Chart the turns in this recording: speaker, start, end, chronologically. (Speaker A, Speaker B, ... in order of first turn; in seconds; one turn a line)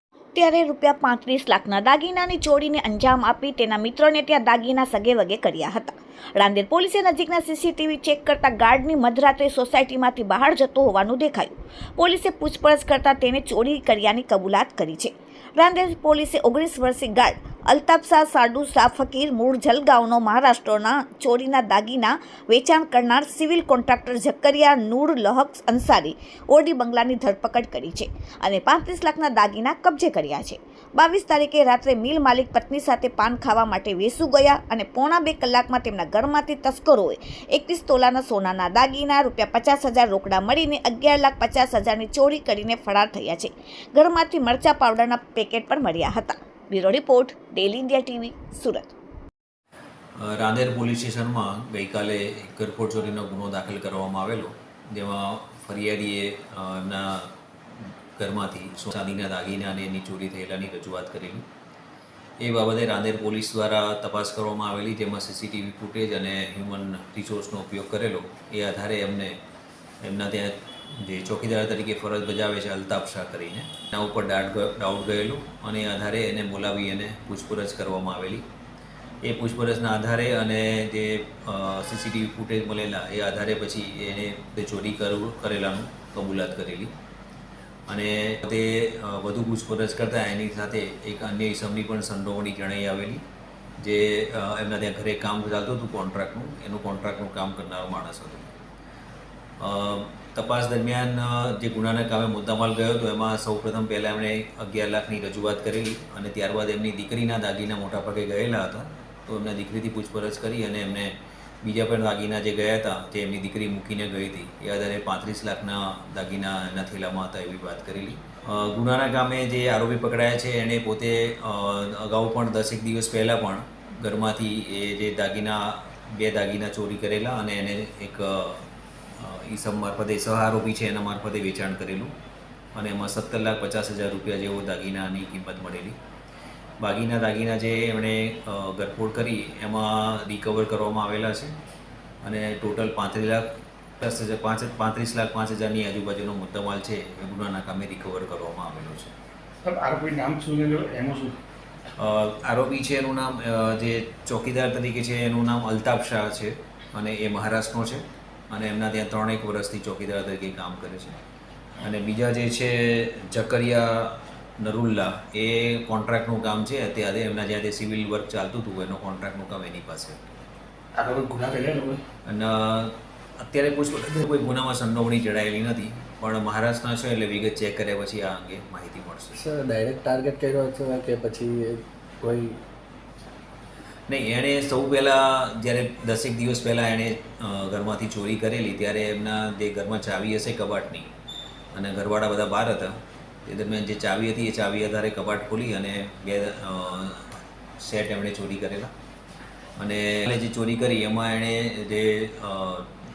Speaker A: 0.3-48.9
Speaker B: 50.2-57.3
Speaker B: 58.2-61.5
Speaker B: 62.4-69.4
Speaker B: 70.0-78.4
Speaker B: 79.2-86.9
Speaker B: 87.9-93.2
Speaker B: 93.8-98.5
Speaker B: 99.6-132.1
Speaker B: 132.8-136.0
Speaker B: 136.8-141.5
Speaker B: 142.2-143.5
Speaker B: 144.0-149.1
Speaker C: 149.6-151.4
Speaker B: 152.0-161.2
Speaker B: 161.8-170.2
Speaker C: 171.0-172.0
Speaker B: 172.2-179.4
Speaker D: 179.3-182.6
Speaker B: 184.1-191.1
Speaker B: 191.7-198.9
Speaker B: 199.8-202.9